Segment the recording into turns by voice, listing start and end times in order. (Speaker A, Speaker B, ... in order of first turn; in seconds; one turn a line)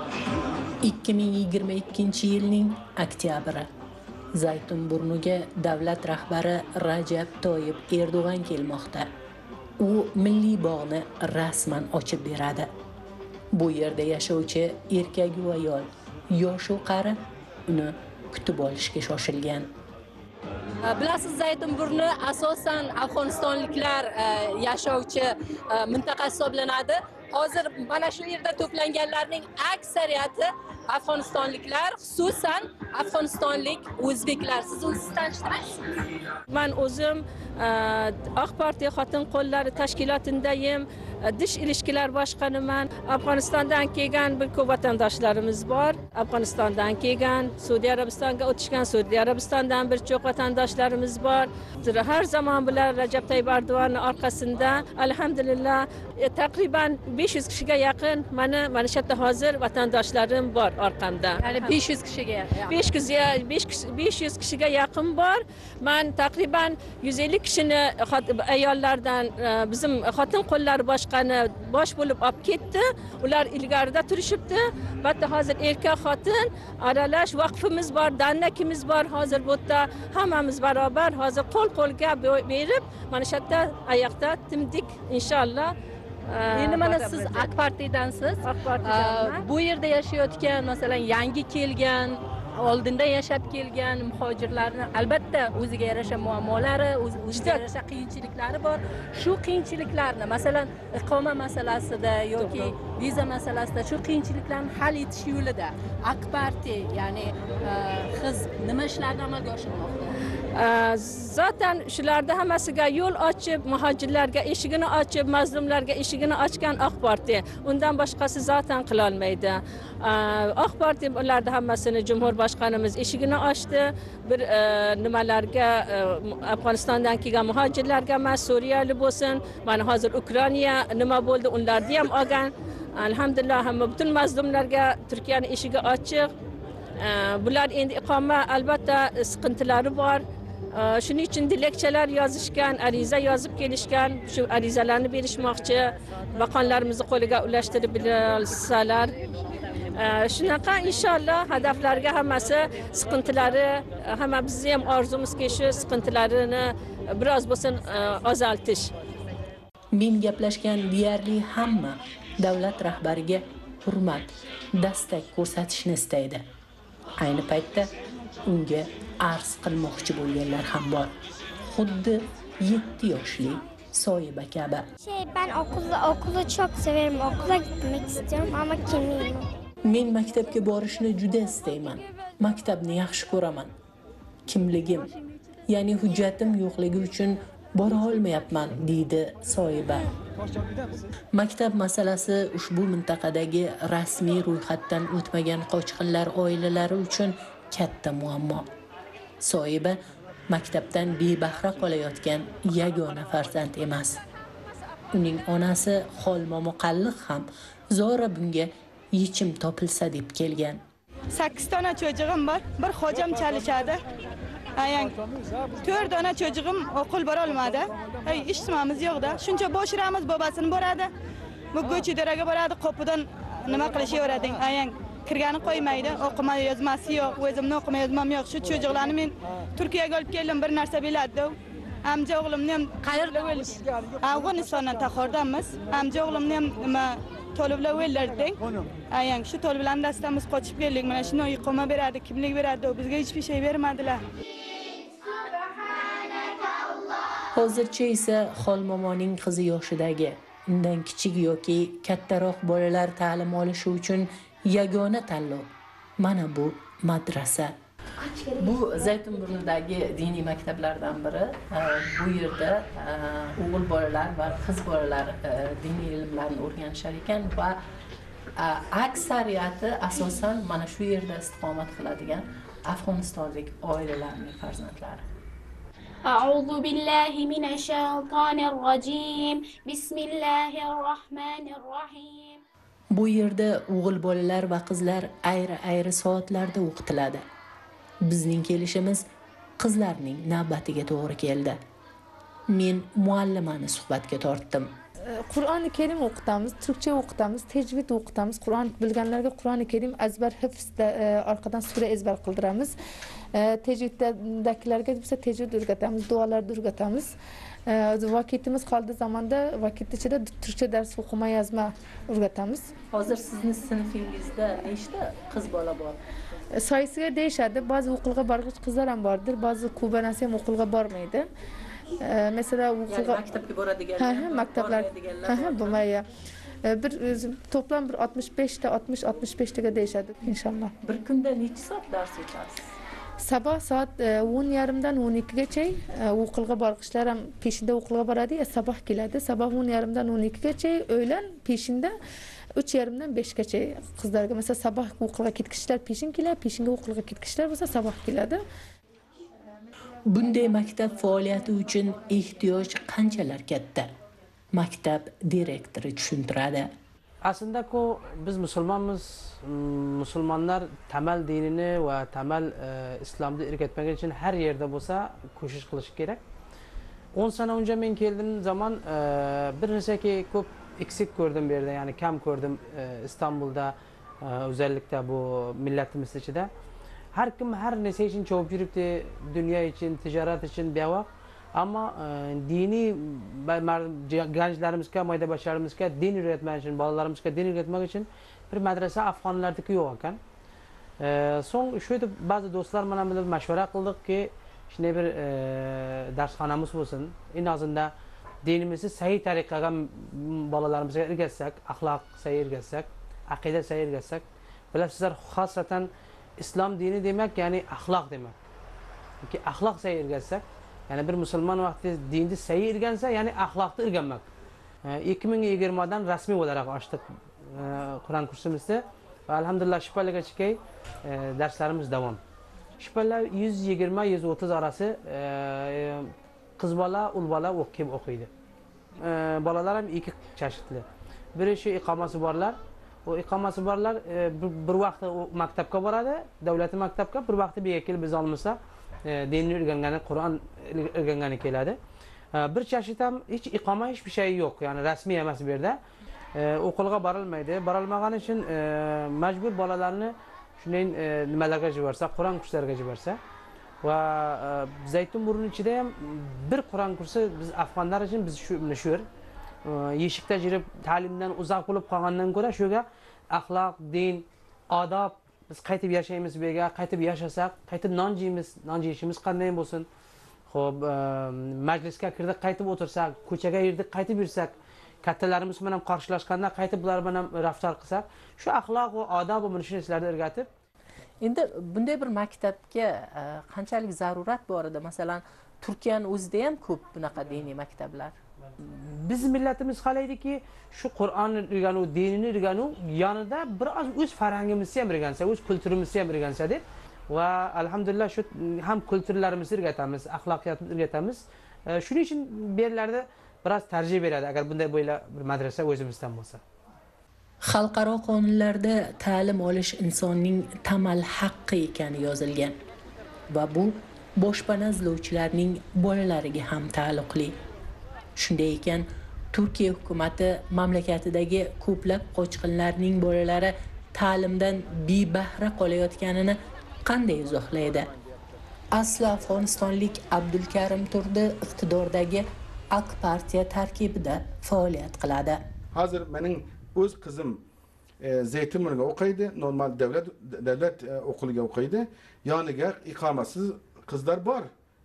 Speaker A: 0.8-3.7
Speaker A: 4.3-9.1
Speaker A: 9.8-12.7
Speaker A: 13.5-19.7
Speaker B: 20.9-35.5
Speaker A: 23.0-24.0
Speaker A: 25.9-26.9
Speaker A: 29.2-29.9
Speaker A: 31.0-35.7
Speaker C: 36.5-61.5
Speaker B: 61.4-62.8
Speaker A: 61.5-62.6
Speaker C: 62.6-85.7
Speaker C: 86.3-87.5
Speaker B: 86.5-88.1
Speaker A: 86.6-88.3
Speaker C: 88.4-89.5
Speaker B: 88.9-89.7
Speaker A: 88.9-107.2
Speaker B: 97.3-97.6
Speaker C: 102.4-102.7
Speaker B: 106.2-109.9
Speaker A: 107.9-109.8
Speaker C: 110.5-136.3
Speaker C: 137.0-140.2
Speaker C: 140.8-149.1
Speaker C: 149.9-158.9
Speaker A: 159.9-166.4
Speaker A: 167.2-167.9
Speaker A: 168.4-171.1
Speaker A: 171.7-174.8
Speaker D: 175.0-179.4
Speaker A: 179.8-183.7
Speaker A: 184.4-185.1
Speaker A: 185.7-190.1
Speaker A: 191.3-198.7
Speaker A: 199.4-200.0
Speaker A: 200.5-204.2
Speaker A: 205.1-210.8
Speaker E: 211.3-214.0
Speaker E: 214.8-215.2
Speaker E: 215.8-221.1
Speaker E: 221.7-231.5
Speaker E: 232.0-238.6
Speaker E: 239.1-244.2
Speaker A: 247.5-255.7
Speaker A: 256.2-257.7
Speaker A: 258.5-267.8
Speaker A: 268.6-275.2
Speaker F: 276.2-282.6
Speaker A: 283.1-287.4
Speaker A: 288.2-289.2
Speaker A: 289.8-291.8
Speaker A: 292.7-294.9
Speaker G: 295.3-302.9
Speaker G: 303.5-307.3
Speaker G: 307.9-312.9
Speaker A: 313.1-316.2
Speaker G: 316.8-321.5
Speaker G: 322.2-323.4
Speaker A: 323.1-326.0
Speaker G: 324.2-326.2
Speaker G: 326.9-330.9
Speaker A: 331.0-332.9
Speaker G: 333.4-342.1
Speaker G: 342.8-348.6
Speaker A: 350.3-354.1
Speaker A: 354.7-356.9
Speaker H: 357.4-366.4
Speaker H: 367.3-376.7
Speaker H: 377.3-390.4
Speaker H: 391.2-398.1
Speaker H: 398.6-406.1
Speaker H: 406.6-408.6
Speaker H: 409.4-414.4
Speaker H: 415.0-422.4
Speaker H: 423.0-428.5
Speaker H: 429.2-442.0
Speaker H: 442.6-446.0
Speaker H: 446.6-453.4
Speaker H: 454.0-459.2
Speaker H: 459.9-470.1
Speaker H: 470.7-474.7
Speaker H: 475.2-480.7
Speaker A: 481.4-488.4
Speaker H: 488.8-506.6
Speaker A: 507.6-512.8
Speaker A: 513.5-517.6
Speaker A: 518.4-528.1
Speaker A: 528.9-535.6
Speaker I: 535.9-537.6
Speaker I: 538.2-544.7